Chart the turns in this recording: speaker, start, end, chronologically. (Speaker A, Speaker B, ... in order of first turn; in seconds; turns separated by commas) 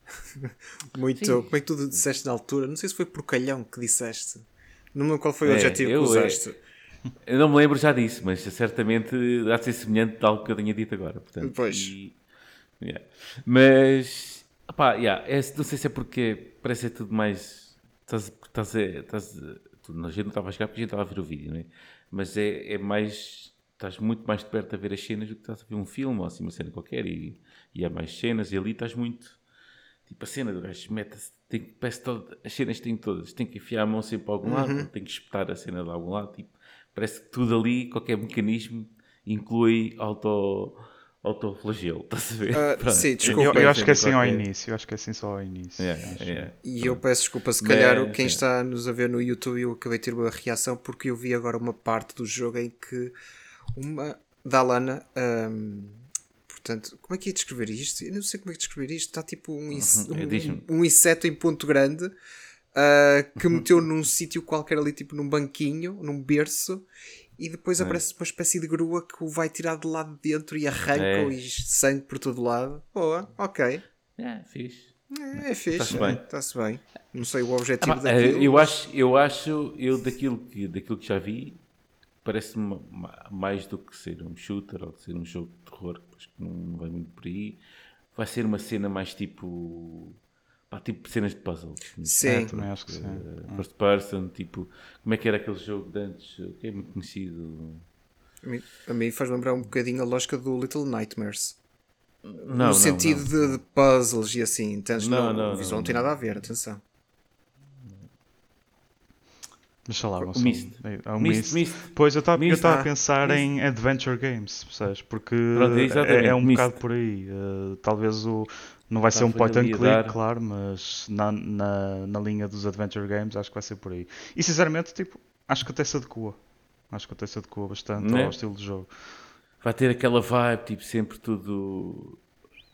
Speaker A: 0.3-6.5, Speaker B: 1.1-1.5, Speaker B: 5.4-6.4, Speaker B: 7.2-12.2, Speaker A: 11.4-11.9, Speaker B: 12.8-29.4, Speaker B: 30.1-44.4, Speaker A: 34.4-34.9, Speaker A: 42.5-44.0, Speaker C: 43.2-46.5, Speaker B: 45.8-47.0, Speaker A: 46.6-53.1, Speaker B: 47.6-48.4, Speaker A: 53.7-62.1, Speaker B: 59.7-60.6, Speaker A: 62.7-66.9, Speaker A: 67.4-73.8, Speaker B: 70.9-71.3, Speaker B: 74.2-75.0, Speaker A: 75.1-78.7, Speaker B: 75.7-76.2, Speaker C: 75.9-76.2, Speaker B: 77.8-81.6, Speaker B: 82.2-87.6, Speaker B: 88.1-90.2, Speaker B: 90.7-97.8, Speaker A: 92.0-92.5, Speaker C: 92.2-93.7, Speaker A: 98.4-101.6, Speaker B: 102.2-103.3, Speaker A: 102.4-106.8, Speaker B: 105.0-106.0, Speaker C: 109.8-126.4, Speaker B: 110.2-112.7, Speaker A: 112.6-113.4, Speaker B: 115.5-116.8, Speaker B: 119.1-120.2, Speaker C: 126.9-128.9, Speaker B: 128.0-128.4, Speaker B: 129.6-132.2